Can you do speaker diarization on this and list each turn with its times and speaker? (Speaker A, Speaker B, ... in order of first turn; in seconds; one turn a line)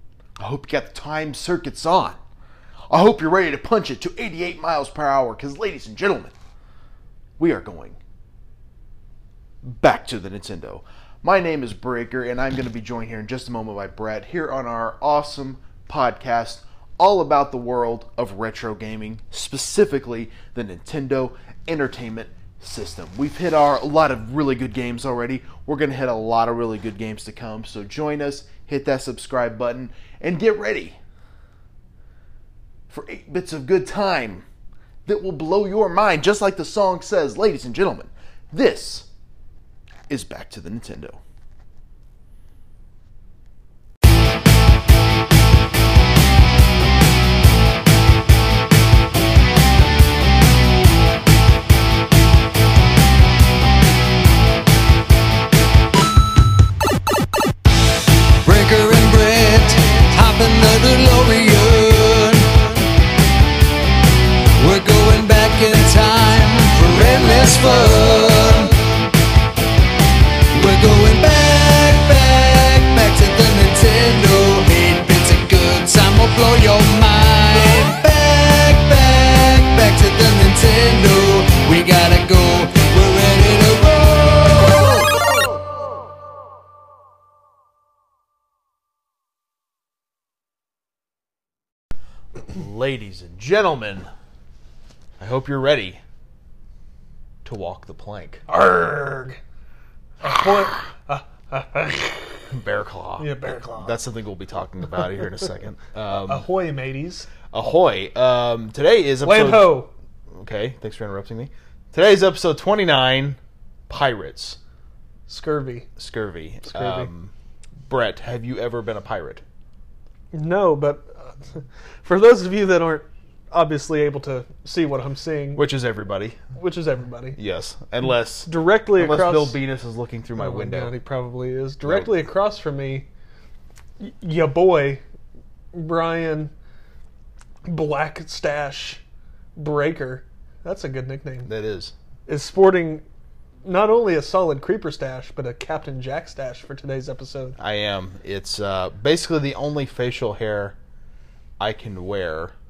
Speaker A: 0.4-2.2
Speaker A: 2.9-6.3
Speaker A: 7.4-8.0
Speaker A: 9.6-31.0
Speaker A: 32.9-34.5
Speaker A: 35.1-39.1
Speaker A: 40.1-41.2
Speaker B: 58.4-62.8
Speaker B: 64.6-68.9
Speaker B: 70.5-85.1
Speaker A: 92.5-94.1
Speaker A: 95.2-96.0
Speaker A: 97.5-98.4
Speaker C: 98.5-99.4
Speaker C: 100.2-102.5
Speaker A: 102.5-106.5
Speaker C: 103.2-104.0
Speaker C: 106.1-107.3
Speaker A: 107.5-113.4
Speaker C: 109.2-109.9
Speaker A: 113.9-114.6
Speaker C: 115.3-115.9
Speaker A: 116.0-117.3
Speaker C: 116.7-117.1
Speaker A: 117.9-119.4
Speaker C: 120.3-125.7
Speaker A: 125.5-126.5
Speaker C: 126.6-127.4
Speaker A: 127.4-130.9
Speaker C: 128.4-129.6
Speaker C: 130.4-133.1
Speaker A: 131.8-132.1
Speaker C: 134.0-135.0
Speaker C: 135.7-136.5
Speaker C: 137.7-139.0
Speaker C: 139.6-141.5
Speaker A: 141.5-141.9
Speaker C: 142.3-143.0
Speaker C: 143.6-147.6
Speaker A: 147.6-150.8
Speaker A: 151.6-152.6